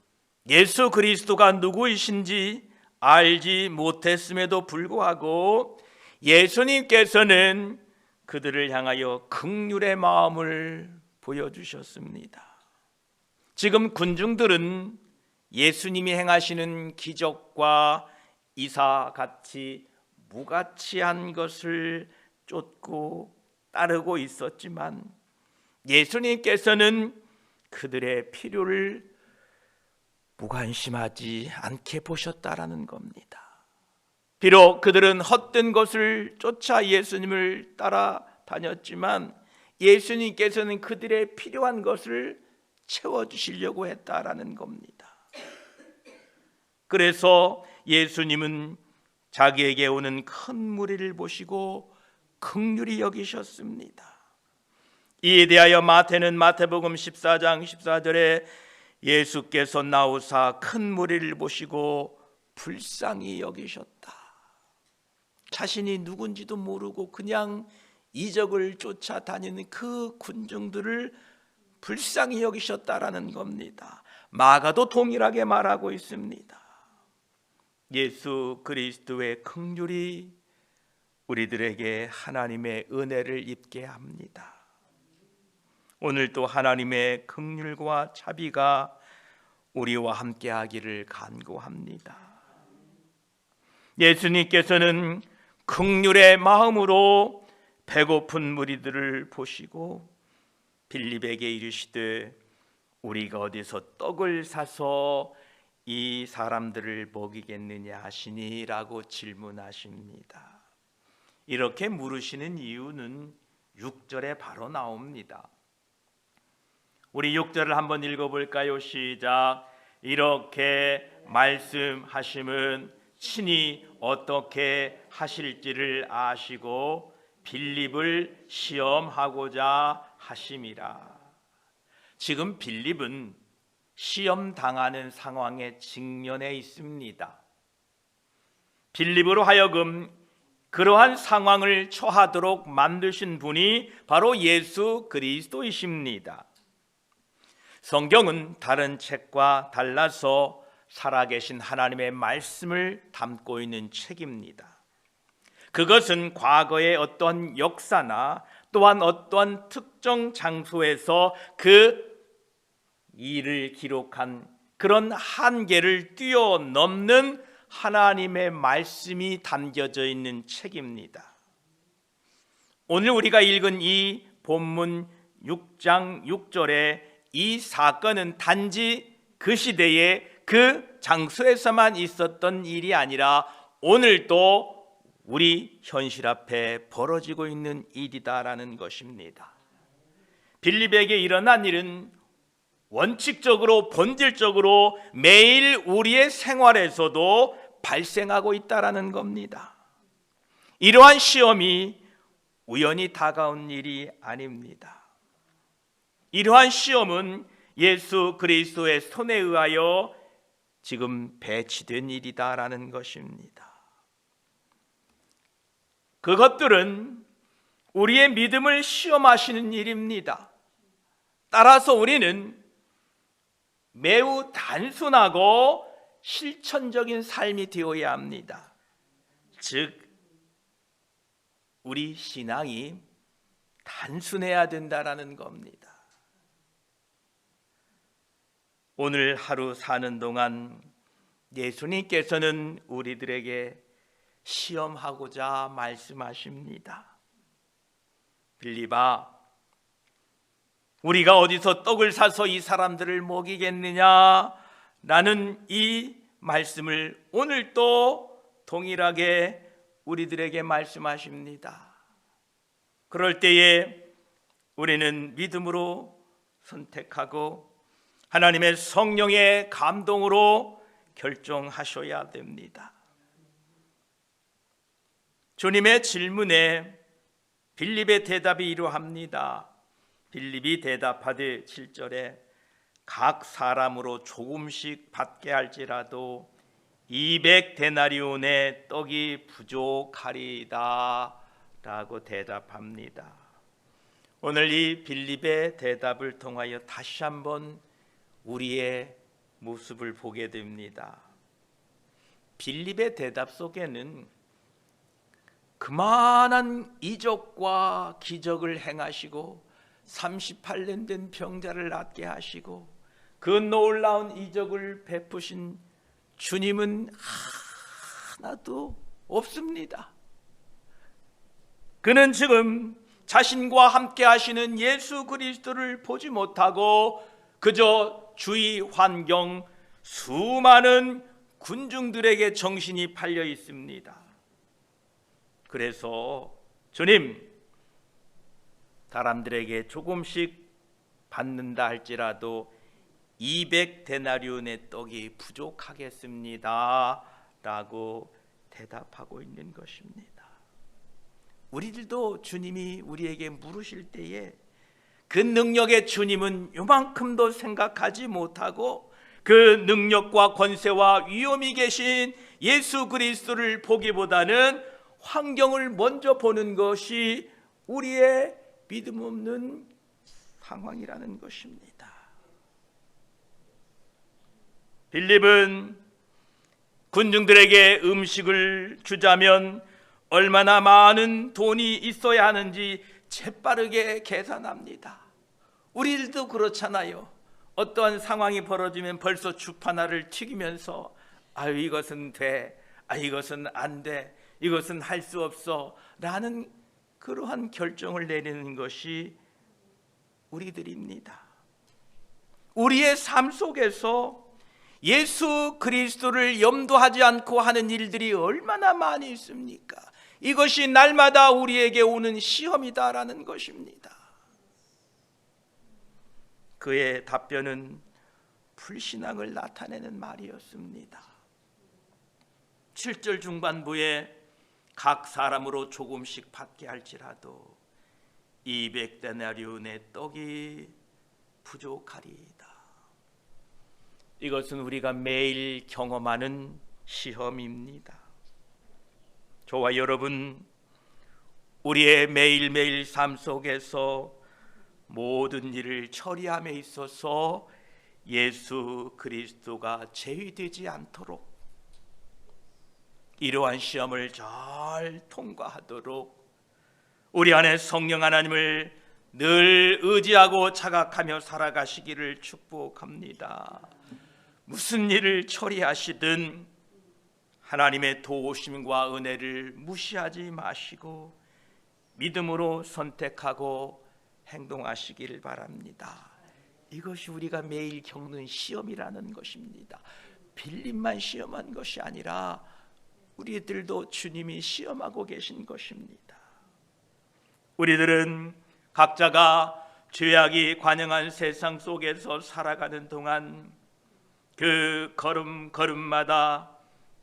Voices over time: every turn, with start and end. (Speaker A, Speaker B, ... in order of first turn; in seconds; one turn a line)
Speaker A: 0.5-12.5
Speaker A: 13.6-15.0
Speaker A: 15.5-25.1
Speaker A: 25.9-27.2
Speaker A: 27.7-29.1
Speaker A: 30.4-33.4
Speaker A: 34.4-45.1
Speaker A: 46.9-48.8
Speaker A: 49.3-54.1
Speaker A: 55.2-58.5
Speaker A: 59.0-64.2
Speaker A: 65.5-71.2
Speaker A: 71.8-76.6
Speaker A: 77.9-80.3
Speaker A: 81.3-84.5
Speaker A: 86.0-89.0
Speaker A: 89.7-92.3
Speaker A: 94.0-100.1
Speaker A: 100.9-102.4
Speaker A: 103.0-110.6
Speaker A: 111.5-115.5
Speaker A: 117.1-131.2
Speaker A: 132.2-133.4
Speaker A: 133.9-137.4
Speaker A: 138.9-140.1
Speaker A: 140.7-146.4
Speaker A: 147.8-154.7
Speaker A: 155.7-162.2
Speaker A: 163.1-171.3
Speaker A: 172.9-189.5
Speaker A: 190.6-192.1
Speaker A: 192.9-199.7
Speaker A: 200.8-202.0
Speaker A: 202.7-205.0
Speaker A: 206.3-210.2
Speaker A: 210.8-213.7
Speaker A: 216.2-217.2
Speaker A: 217.9-220.5
Speaker A: 221.5-222.6
Speaker A: 223.9-228.7
Speaker A: 229.6-230.1
Speaker A: 231.8-233.0
Speaker A: 233.8-235.9
Speaker A: 239.0-240.8
Speaker A: 241.5-243.8
Speaker A: 244.4-247.1
Speaker A: 248.6-249.3
Speaker A: 251.0-261.9
Speaker A: 263.1-264.1
Speaker A: 264.8-267.7
Speaker A: 268.3-272.9
Speaker A: 275.6-277.0
Speaker A: 277.8-279.7
Speaker A: 280.3-282.4
Speaker A: 283.1-286.5
Speaker A: 287.1-293.4
Speaker A: 294.4-297.8
Speaker A: 298.4-301.2
Speaker A: 302.6-304.3
Speaker A: 305.8-315.8
Speaker A: 316.4-320.1
Speaker A: 322.0-334.2
Speaker A: 335.7-337.5
Speaker A: 339.1-340.7
Speaker A: 341.3-342.7
Speaker A: 343.4-350.5
Speaker A: 351.7-354.6
Speaker A: 355.3-369.9
Speaker A: 370.6-372.1
Speaker A: 375.1-376.0
Speaker A: 377.1-385.2
Speaker A: 385.9-399.4
Speaker A: 400.5-401.5
Speaker A: 402.7-404.5
Speaker A: 405.0-414.2
Speaker A: 416.8-418.0
Speaker A: 418.8-421.3
Speaker A: 422.9-424.4
Speaker A: 424.9-427.8
Speaker A: 428.6-430.9
Speaker A: 431.6-432.8
Speaker A: 434.4-438.2
Speaker A: 439.7-440.7
Speaker A: 441.8-444.4
Speaker A: 445.1-447.7
Speaker A: 448.2-451.5
Speaker A: 453.4-456.4
Speaker A: 457.3-463.9
Speaker A: 464.7-466.7
Speaker A: 467.6-471.4
Speaker A: 472.2-476.3
Speaker A: 476.9-480.0
Speaker A: 480.5-482.6
Speaker A: 483.4-486.4
Speaker A: 487.8-493.7
Speaker A: 494.6-496.8